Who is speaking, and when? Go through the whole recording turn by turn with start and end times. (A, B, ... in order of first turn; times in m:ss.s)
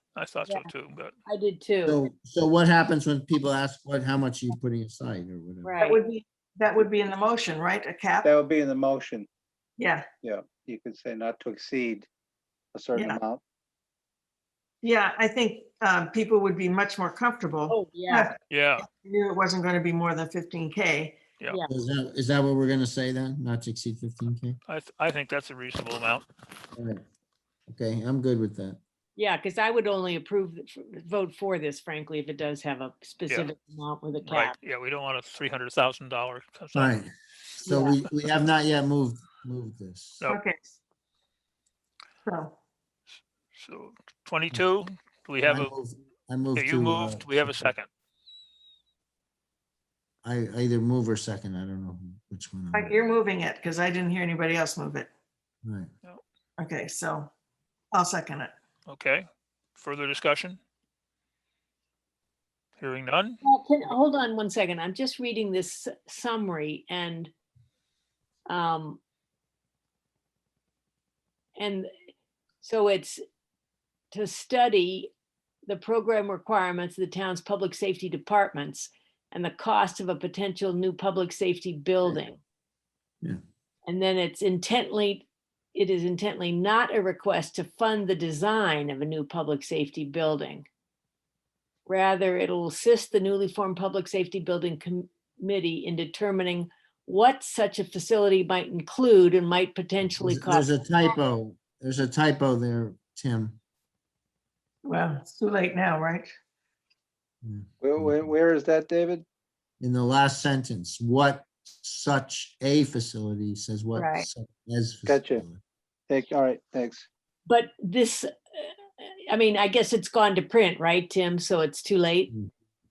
0:00.2-0:01.1 A
0:01.2-0:02.0 B
0:01.8-0:05.7 C
0:05.6-0:06.0 B
0:05.8-0:08.3 D
0:08.2-0:09.3 E
0:09.8-0:10.1 D
0:10.2-0:12.1 E
0:12.7-0:13.4 E
0:14.8-0:21.2 D
0:17.7-0:18.3 B
0:18.5-0:18.8 A
0:21.7-0:24.6 C
0:24.7-0:26.3 A
0:26.8-0:27.0 C
0:27.7-0:28.8 C
0:29.2-0:34.6 B
0:34.2-0:37.0 A
0:36.8-0:40.2 C
0:37.6-0:38.0 B
0:40.3-0:40.7 D
0:42.2-0:42.6 D
0:43.5-0:45.7 A
0:45.4-0:47.7 C
0:46.5-0:47.9 A
0:50.2-0:53.0 C
0:52.7-0:55.1 D
0:55.6-0:55.9 C
0:56.6-0:57.3 D
0:57.9-0:58.5 D
0:58.9-1:00.6 A
1:02.8-1:03.4 A
1:03.4-1:07.3 B
1:08.5-1:09.0 B
1:11.6-1:11.9 B
1:12.6-1:13.2 B
1:14.1-1:15.1 B
1:15.7-1:22.4 B
1:23.8-1:30.7 B
1:31.9-1:40.8 B
1:40.0-1:43.6 C
1:44.8-1:46.3 D
1:47.4-1:48.3 C
1:47.8-1:49.2 E
1:49.8-1:55.6 C
1:54.0-1:54.3 B
1:55.0-1:55.4 E
1:56.1-1:57.0 E
1:57.5-2:02.3 B